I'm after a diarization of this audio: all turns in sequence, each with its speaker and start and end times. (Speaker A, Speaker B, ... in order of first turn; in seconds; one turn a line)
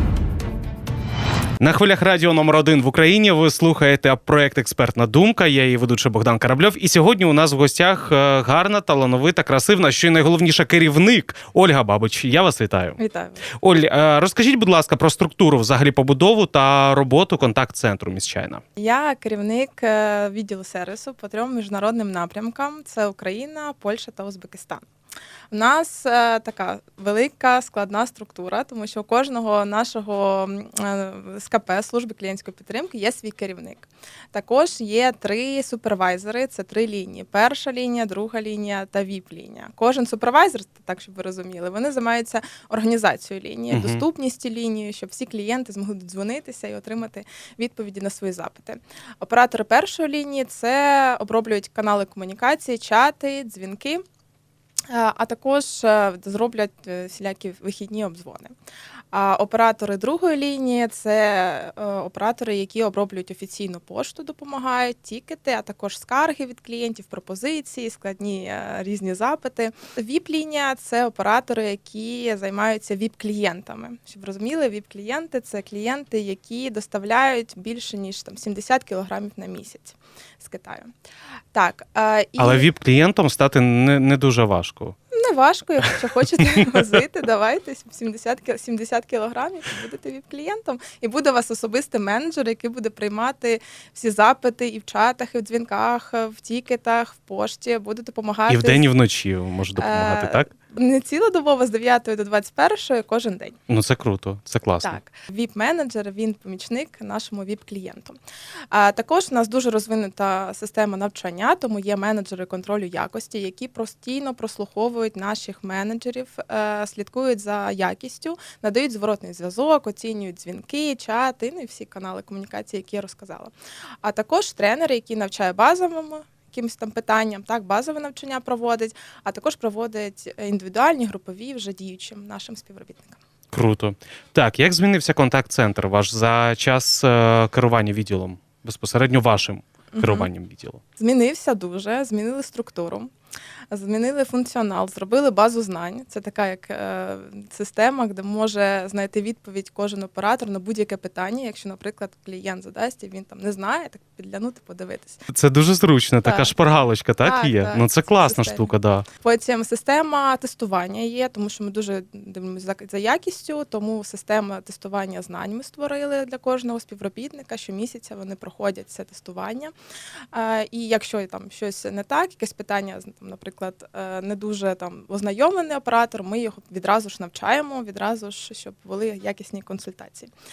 Speaker A: 1.6-18.6
Speaker B: 13.0-13.4
Speaker B: 18.8-24.8
Speaker B: 25.5-54.0
Speaker A: 43.7-44.0
Speaker B: 54.9-58.5
Speaker B: 59.1-80.9
Speaker B: 81.5-82.7
Speaker A: 82.4-84.9
Speaker B: 85.1-98.8
Speaker A: 85.8-86.8
Speaker A: 98.5-100.5
Speaker B: 99.8-103.6
Speaker A: 103.7-105.0
Speaker B: 104.8-108.2
Speaker B: 108.7-123.5
Speaker B: 124.0-133.2
Speaker A: 133.5-140.8
Speaker B: 139.9-140.3
Speaker B: 141.0-143.1
Speaker B: 143.7-155.2
Speaker A: 155.3-159.1
Speaker B: 156.2-156.5
Speaker B: 157.2-158.7
Speaker B: 159.2-169.7
Speaker B: 170.3-180.3